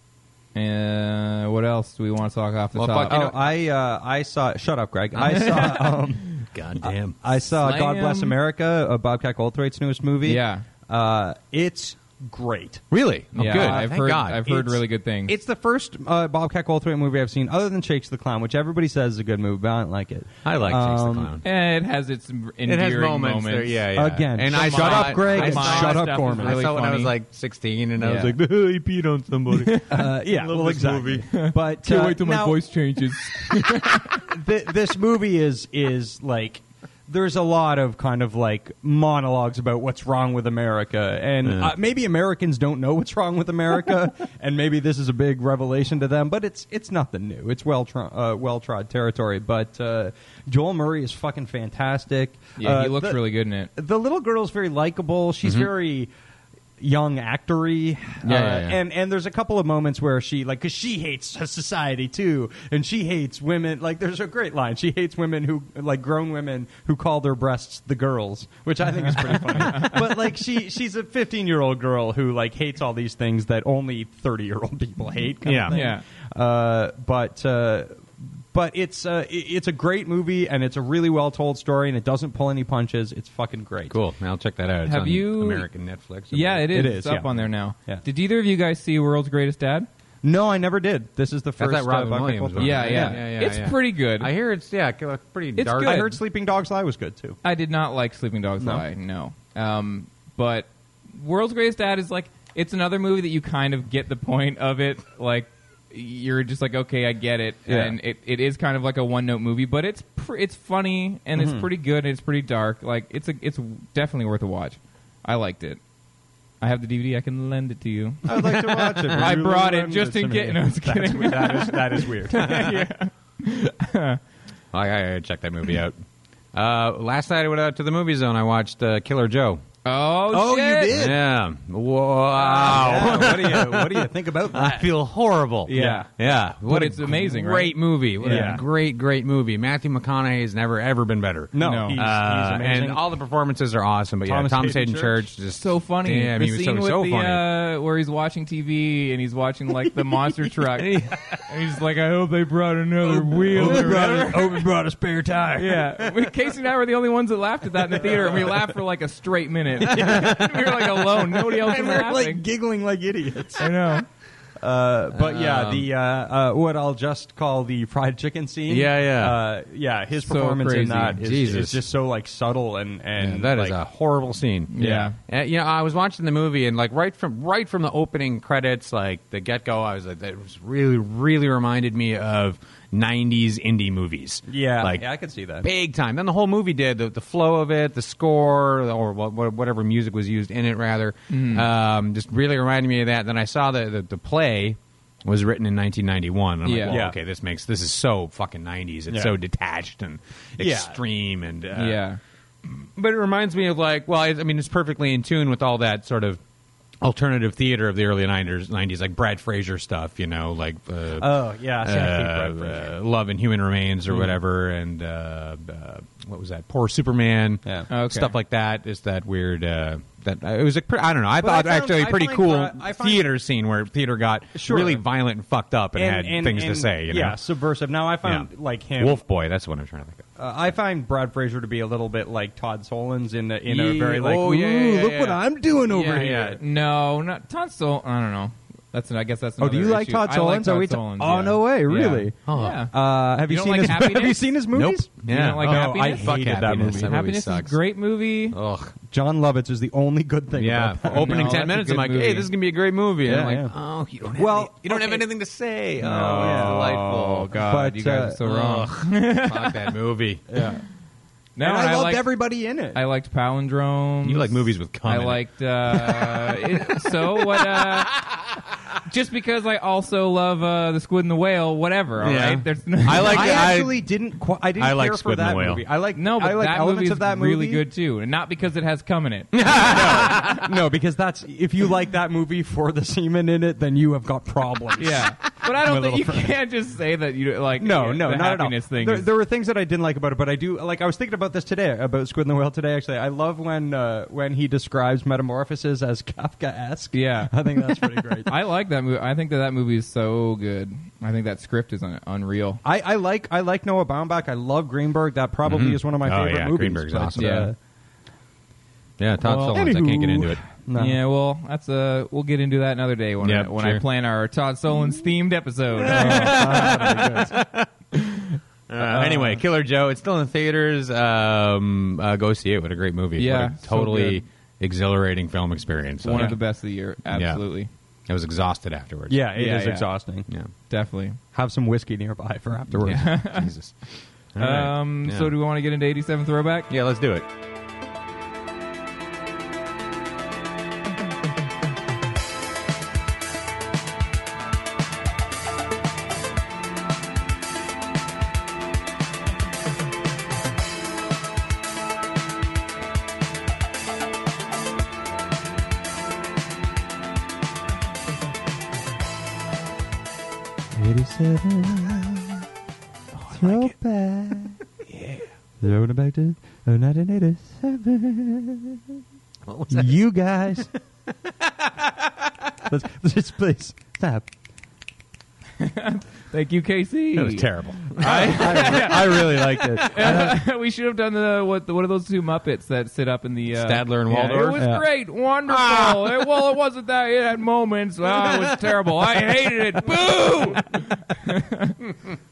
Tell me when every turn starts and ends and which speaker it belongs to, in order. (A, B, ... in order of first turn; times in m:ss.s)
0:00.5-0:03.2 A
0:02.7-0:03.5 B
0:03.1-0:06.3 C
0:05.2-0:05.7 B
0:06.5-0:07.2 B
0:06.8-0:12.8 C
0:07.6-0:08.3 A
0:10.2-0:10.6 A
0:12.9-0:14.5 B
0:13.4-0:15.4 A
0:13.4-0:13.9 C
0:14.4-0:21.3 C
0:20.4-0:21.4 B
0:21.4-0:23.8 A
0:22.6-0:31.3 B
0:23.9-0:26.6 C
0:24.5-0:27.1 A
0:28.0-0:28.4 A
0:29.6-0:30.0 A
0:29.9-0:53.2 C
0:31.3-0:34.2 A
0:41.4-0:41.7 B
0:52.6-0:53.7 A
0:53.7-0:56.1 C
0:55.4-0:55.7 B
0:56.8-1:24.0 C
0:58.2-0:58.8 B
1:09.1-1:09.9 A
1:09.1-1:10.2 B
1:15.4-1:15.8 B
1:15.7-1:16.0 A
1:23.9-1:26.7 B
1:24.8-1:25.7 A
1:26.3-1:29.9 A
1:26.7-1:28.0 C
1:30.2-1:33.2 C
1:31.6-1:36.1 B
1:32.6-1:34.3 A
1:35.5-1:36.2 A
1:35.8-1:37.4 C
1:37.4-1:55.8 A
1:47.7-1:48.0 C
1:51.3-1:51.6 C
1:56.6-2:04.2 A
1:58.2-2:02.7 C
1:59.0-1:59.3 B
2:04.7-2:06.0 B
2:06.5-2:09.6 B
2:09.8-2:10.9 A
2:10.3-2:11.2 C
2:10.9-2:27.5 B
2:12.3-2:14.9 C
2:15.7-2:16.1 A
2:15.7-2:16.1 C
2:16.6-2:18.6 A
2:18.2-2:18.6 C
2:21.5-2:23.0 C
2:21.6-2:22.0 A
2:24.2-2:25.2 C
2:25.6-2:34.6 A
2:30.8-2:31.4 B
2:33.1-2:36.0 C
2:33.4-2:34.3 B
2:35.6-2:42.4 A
2:38.0-2:38.6 C
2:39.8-2:43.7 C
2:39.9-2:40.4 B
2:43.6-2:44.0 A
2:44.6-2:53.8 C
2:45.1-2:45.9 B
2:48.7-2:49.4 B
2:50.2-2:51.2 A
2:51.2-2:51.8 B
2:53.2-3:05.0 B
2:54.7-2:55.2 A
3:04.5-3:05.7 C
3:05.6-3:22.0 B
3:11.3-3:11.6 A
3:16.6-3:17.0 A
3:16.9-3:17.2 C
3:20.6-3:21.0 C
3:21.8-3:22.2 A
3:22.6-3:26.4 B
3:27.0-3:47.4 B
3:31.2-3:32.9 C
3:37.9-3:38.3 A
3:41.4-3:43.3 C
3:44.6-3:45.0 C
3:45.9-3:49.2 C
3:48.2-3:50.2 B
3:50.4-3:56.6 C
3:53.6-3:56.6 B
3:55.9-4:02.9 A
3:59.6-4:07.1 C
4:02.4-4:02.8 B
4:03.5-4:04.4 A
4:03.8-4:04.2 B
4:04.7-4:07.8 B
4:05.2-4:06.3 A
4:06.9-4:08.6 A
4:08.5-4:08.9 B
4:09.1-4:11.6 C
4:10.6-4:17.5 B
4:11.1-4:12.5 A
4:13.2-4:13.7 C
4:14.3-4:15.3 C
4:16.0-4:19.8 A
4:16.1-4:17.0 C
4:17.6-4:18.4 C
4:18.4-4:20.6 B
4:20.5-4:20.8 C
4:21.6-4:22.3 A
4:21.6-4:23.0 C
4:22.9-4:28.1 A
4:24.2-4:28.4 B
4:29.1-4:33.7 A
4:32.2-4:34.0 B
4:33.2-4:37.8 C
4:34.8-4:35.8 B
4:36.1-4:40.5 A
4:39.5-4:40.6 B
4:39.8-4:45.3 C
4:45.0-4:49.3 A
4:45.8-4:46.5 C
4:47.8-4:58.6 C
4:57.1-5:02.8 A
5:02.8-5:07.8 C
5:05.6-5:07.6 B
5:07.4-5:07.7 A
5:09.2-5:10.6 B
5:09.5-5:11.2 C
5:10.9-5:17.0 A
5:13.4-5:14.0 B
5:16.0-5:17.9 B
5:16.0-5:17.6 C
5:18.9-5:26.6 B
5:19.1-5:19.5 C
5:23.4-5:24.4 A
5:26.2-5:27.9 A
5:26.3-5:26.6 C
5:27.3-5:27.6 B
5:28.3-5:29.5 B
5:29.3-5:30.5 C
5:29.5-5:30.1 A
5:30.9-5:31.4 A
5:31.5-5:33.3 C
5:32.9-5:33.9 B
5:33.1-5:33.7 A
5:34.5-5:35.5 B
5:34.6-5:36.9 A
5:36.9-5:37.4 B
6:00.9-6:02.6 C
6:03.3-6:03.9 B
6:03.5-6:04.8 C
6:05.0-6:05.5 B
6:05.8-6:09.0 C
6:09.6-6:10.2 B
6:09.9-6:10.9 C
6:11.3-6:12.7 B
6:12.9-6:14.5 C
6:15.8-6:32.0 A
6:17.3-6:20.6 B
6:18.2-6:20.5 C
6:23.7-6:24.8 B
6:24.8-6:25.0 C
6:25.7-6:26.5 B
6:28.2-6:30.8 B